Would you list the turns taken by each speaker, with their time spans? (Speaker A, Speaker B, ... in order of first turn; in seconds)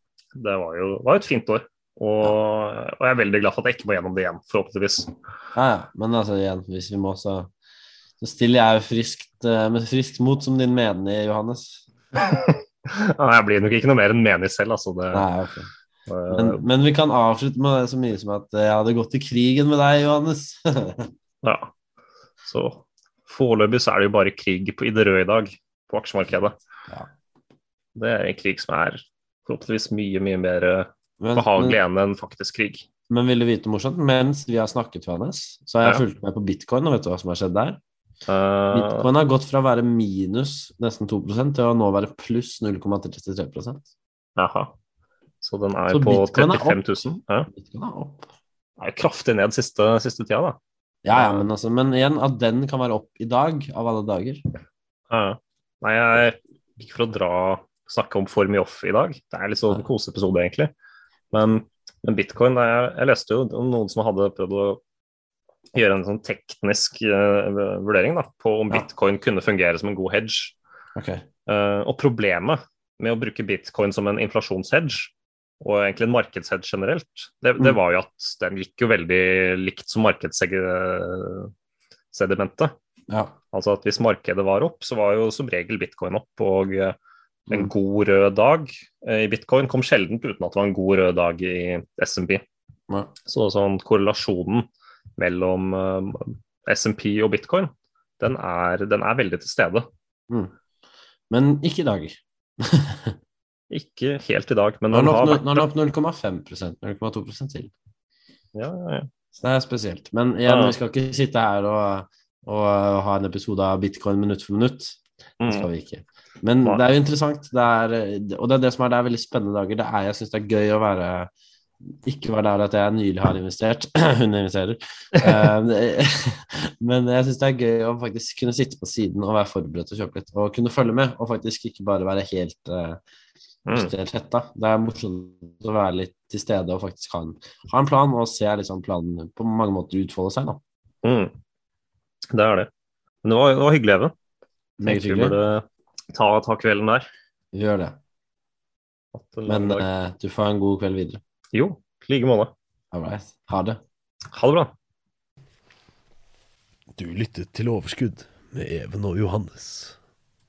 Speaker A: 0.3-5.1, 12.2-15.2, 16.1-16.6, 21.4-21.7, 22.4-26.6, 27.9-32.9, 38.3-39.1, 44.4-44.7, 45.4-47.5, 48.8-50.6, 51.1-51.5, 55.1-60.7, 61.3-64.8, 65.7-70.5, 71.5-81.5, 82.1-82.7, 83.5-87.0, 87.5-92.4, 93.2-94.7, 95.2-99.9, 103.7-105.6, 108.5-109.1, 110.5-110.7, 115.4-115.7, 133.7-133.9, 141.0-141.3, 142.3-142.7, 143.2-144.1, 144.8-147.1, 149.1-149.8, 151.5-152.5, 154.3-154.7
Speaker B: 5.5-7.5, 8.2-11.9, 15.1-15.7, 16.3-21.1, 31.2-31.8, 33.1-37.8, 38.7-43.9, 45.9-48.3, 51.0-54.4, 70.9-71.2, 83.1-83.3, 101.3-103.2, 104.9-107.7, 109.4-121.3, 121.8-133.0, 133.7-140.6, 144.8-145.4, 147.5-148.0, 149.5-151.2, 152.9-153.8
Speaker C: 156.9-159.9